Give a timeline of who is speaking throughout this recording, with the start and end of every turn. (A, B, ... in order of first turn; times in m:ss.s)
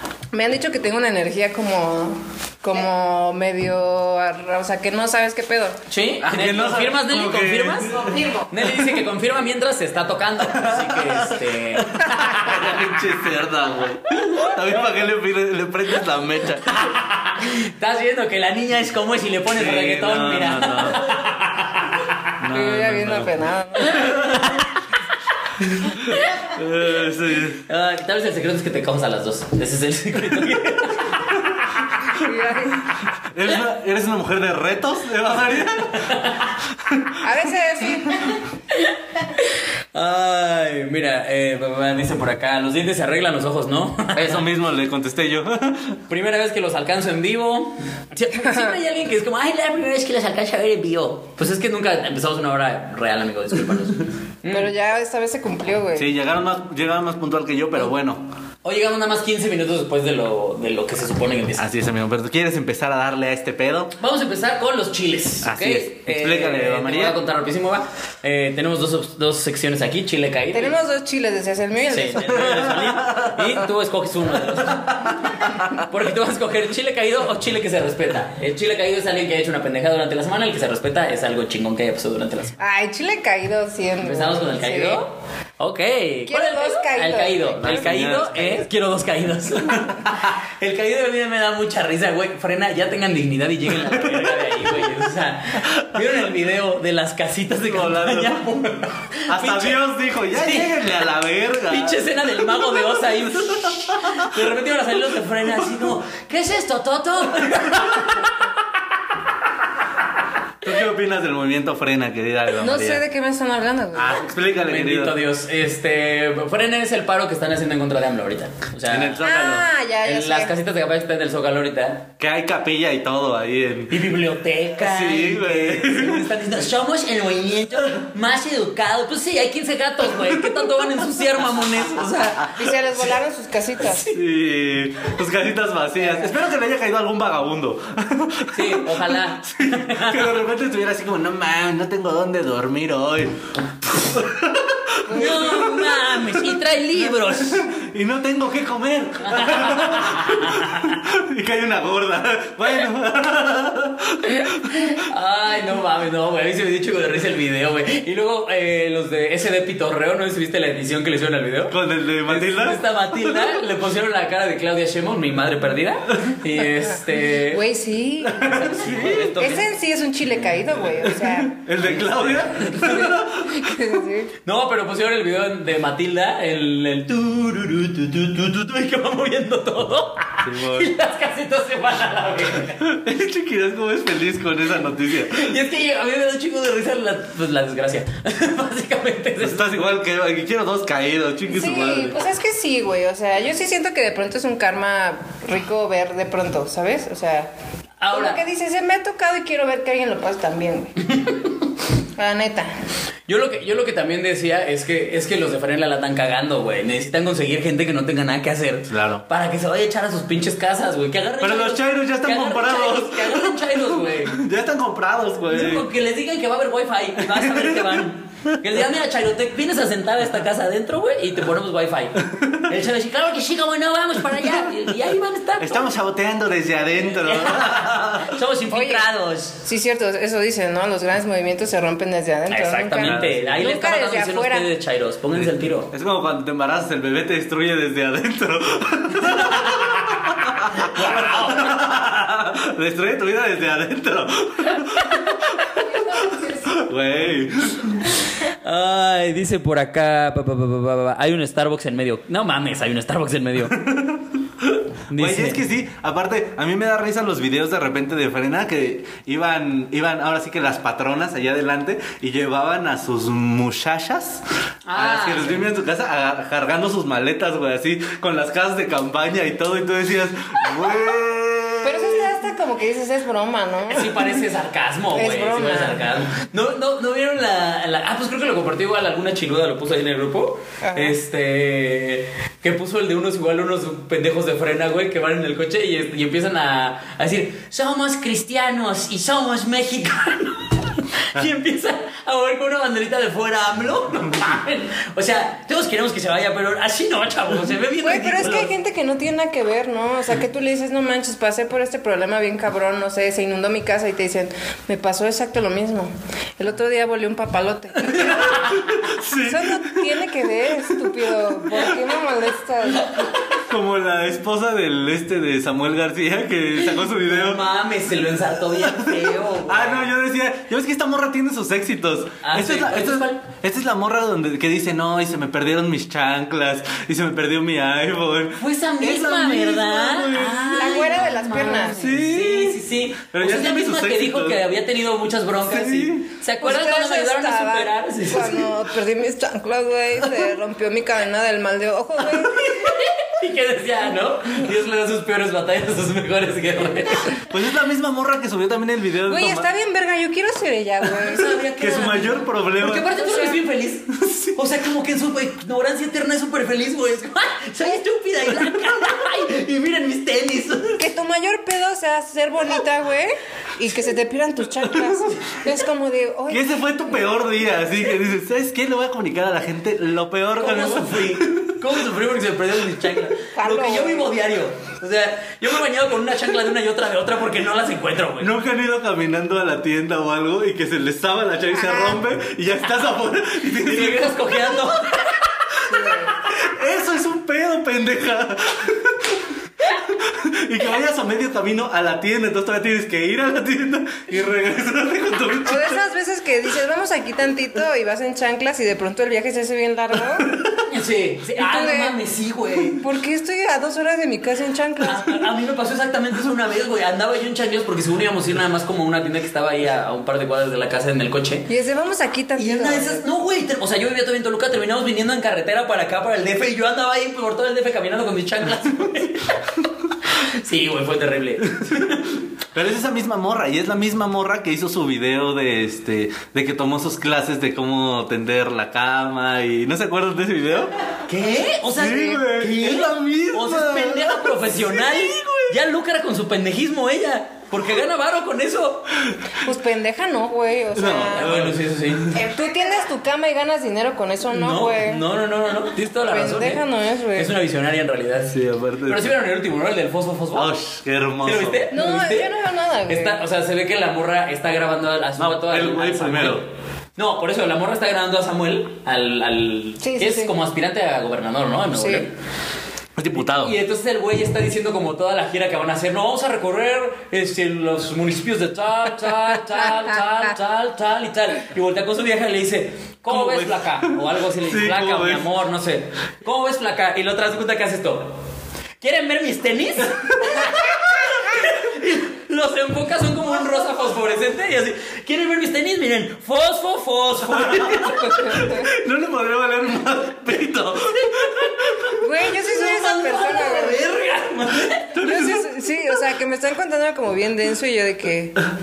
0:00.3-0:05.8 A
0:05.9-0:12.9 B
0:06.2-0:08.9 C
0:10.4-0:16.9 C
0:16.6-0:22.3 B
0:19.5-0:21.1 C
0:22.4-0:24.6 C
0:22.5-0:24.1 A
0:23.8-0:24.7 B
0:25.6-0:27.6 C
0:25.9-0:26.5 B
0:27.6-0:32.0 B
0:32.1-0:32.9 A
0:33.3-0:36.1 C
0:36.0-0:36.6 B
0:36.8-0:37.2 C
0:37.2-0:38.4 A
0:38.7-0:44.4 B
0:44.1-0:46.0 C
0:46.1-0:54.7 B
0:48.4-0:48.7 A
0:54.5-0:56.1 A
0:56.0-0:58.2 C
0:58.6-1:01.6 B
1:01.6-1:03.9 C
1:04.0-1:10.7 B
1:05.4-1:07.2 C
1:10.5-1:12.7 A
1:11.9-1:22.5 B
1:12.3-1:13.6 C
1:14.5-1:15.1 C
1:22.6-1:25.0 A
1:24.0-1:40.8 B
1:26.3-1:28.3 A
1:27.6-1:28.7 C
1:33.8-1:34.9 C
1:35.8-1:36.2 C
1:37.6-1:38.4 C
1:39.3-1:44.4 C
1:41.7-1:48.5 B
1:50.6-1:53.0 C
1:52.5-1:54.2 A
1:53.9-1:55.2 C
1:54.6-1:59.3 B
1:58.9-1:59.7 C
1:59.2-2:00.5 A
2:00.0-2:02.1 B
2:02.2-2:04.0 C
2:03.9-2:12.7 B
2:04.8-2:06.3 C
2:10.2-2:10.6 C
2:12.5-2:14.1 A
2:13.8-2:25.9 C
2:16.0-2:16.3 A
2:18.5-2:20.4 B
2:25.1-2:25.8 A
2:25.1-2:27.6 B
2:27.2-2:35.0 C
2:29.2-2:31.0 B
2:34.4-2:47.6 B
2:41.7-2:43.4 C
2:46.8-2:48.6 A
2:48.2-2:49.5 C
2:48.5-2:49.7 B
2:49.4-2:51.6 A
2:50.4-2:53.8 C
2:51.8-2:53.2 B
2:52.8-2:54.3 A
2:54.4-3:02.8 B
3:00.4-3:00.9 C
3:02.8-3:05.5 C
3:05.2-3:09.8 B
3:09.4-3:12.2 C
3:11.5-3:17.5 A
3:18.0-3:18.4 B
3:18.1-3:21.1 A
3:21.1-3:21.6 B
3:22.2-3:22.7 A
3:23.3-3:34.4 B
3:28.9-3:29.2 C
3:31.4-3:35.9 C
3:35.5-3:45.9 B
3:37.2-3:38.0 C
3:42.3-3:42.7 C
3:44.4-3:44.8 C
3:45.6-3:48.4 C
3:47.0-3:49.6 B
3:48.7-3:49.0 A
3:49.6-3:54.7 A
3:52.5-3:55.9 B
3:53.0-3:53.6 C
3:55.3-4:08.0 C
3:59.2-4:01.8 B
4:06.1-4:06.7 A
4:08.1-4:13.8 B
4:13.7-4:24.4 C
4:15.1-4:15.6 B
4:24.8-4:25.7 B
4:25.0-4:32.3 C
4:31.8-4:34.4 A
4:33.9-4:58.7 B
4:35.1-4:36.0 A
4:40.8-4:41.2 A
4:58.0-5:08.7 A
5:08.0-5:09.0 B
5:08.7-5:11.2 C
5:09.3-5:13.2 A
5:13.0-5:13.6 B
5:13.6-5:17.6 C
5:16.8-5:20.1 B
5:18.6-5:31.1 C
5:22.4-5:23.4 B
5:28.6-5:38.6 B
5:30.7-5:32.0 A
5:32.0-5:32.8 C
5:33.3-5:34.6 C
5:35.6-5:36.2 C
5:36.6-5:43.0 A
5:42.4-5:47.4 B
5:47.5-5:49.7 C
5:49.3-5:51.7 A
5:51.2-6:01.0 B
5:51.8-5:53.2 C
5:53.1-5:53.6 A
5:54.2-5:54.5 C
6:01.0-6:06.6 A
6:04.8-6:05.2 C
6:06.5-6:11.9 C
6:10.6-6:18.5 B
6:13.5-6:14.3 A
6:18.4-6:24.9 C
6:21.7-6:22.2 A
6:23.8-6:25.4 B
6:25.8-6:26.4 A
6:26.4-6:36.0 C
6:35.6-6:40.5 A
6:40.4-6:40.8 C
6:40.9-6:43.0 B
6:41.6-6:42.2 A
6:42.8-6:45.5 A
6:45.0-6:51.7 B
6:51.7-6:53.2 A
6:52.6-7:02.4 B
7:01.7-7:02.1 C
7:02.7-7:10.9 C
7:11.3-7:19.2 B
7:11.9-7:15.8 C
7:19.2-7:19.6 C
7:19.6-7:21.6 A
7:20.9-7:22.6 C
7:21.4-7:22.3 B
7:22.4-7:25.2 A
7:24.5-7:26.8 B
7:26.3-7:27.5 A
7:27.3-7:30.7 B
7:28.5-7:29.3 C
7:30.5-7:31.9 C
7:31.4-7:32.5 B
7:31.9-7:33.4 A
7:33.1-7:42.3 B
7:35.4-7:36.6 C
7:40.0-7:40.5 A
7:41.9-7:42.2 A
7:43.2-7:43.7 C
7:43.3-7:58.4 B
7:53.3-7:55.5 C
7:59.0-8:08.7 B
8:07.5-8:12.2 C
8:08.3-8:08.9 A
8:11.2-8:11.7 B
8:12.2-8:14.1 A
8:12.4-8:15.2 B
8:15.1-8:15.7 C
8:15.2-8:18.6 A